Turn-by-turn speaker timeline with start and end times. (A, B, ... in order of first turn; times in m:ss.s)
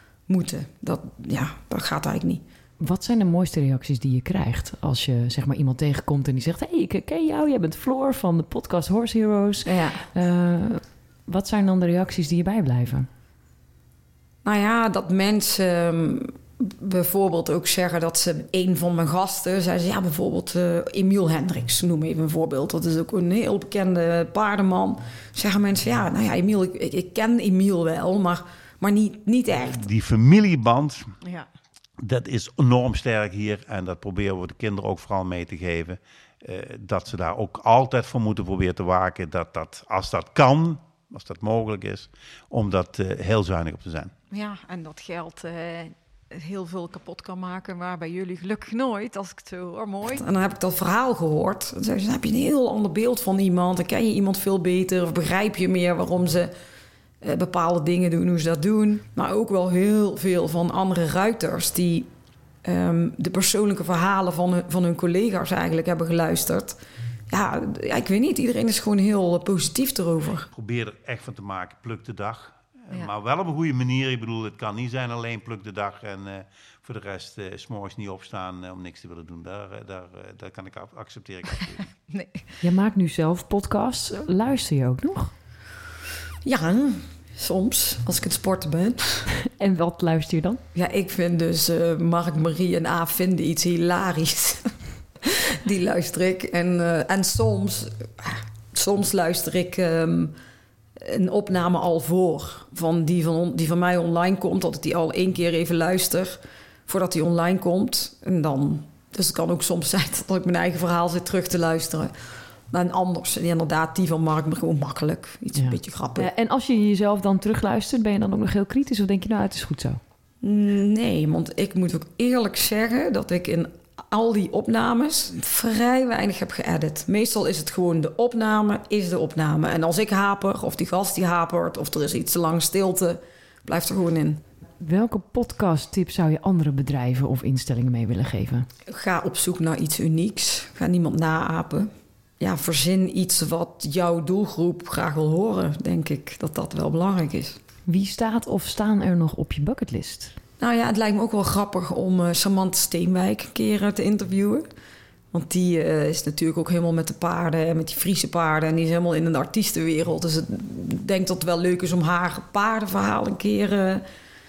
0:00.3-0:02.4 A
0:02.8-0:13.1 B
0:09.6-0:10.0 A
0:14.4-0:29.8 A
0:29.6-0:31.1 C
0:32.0-0:44.1 C
0:44.3-0:50.2 D
0:50.0-0:56.5 A
0:57.2-1:02.1 A
1:02.6-1:06.8 A
1:07.3-1:10.5 A
1:10.5-1:21.9 C
1:22.6-1:25.3 B
1:26.4-1:29.2 A
1:29.4-1:30.6 B
1:30.7-1:34.7 A
1:35.2-1:40.3 A
1:41.0-1:52.1 A
1:52.7-1:56.3 A
1:55.6-2:00.0 B
2:00.4-2:14.4 A
2:14.8-2:18.7 B
2:18.9-2:27.6 A
2:27.8-2:30.4 B
2:30.6-2:34.6 A
2:35.3-2:44.0 A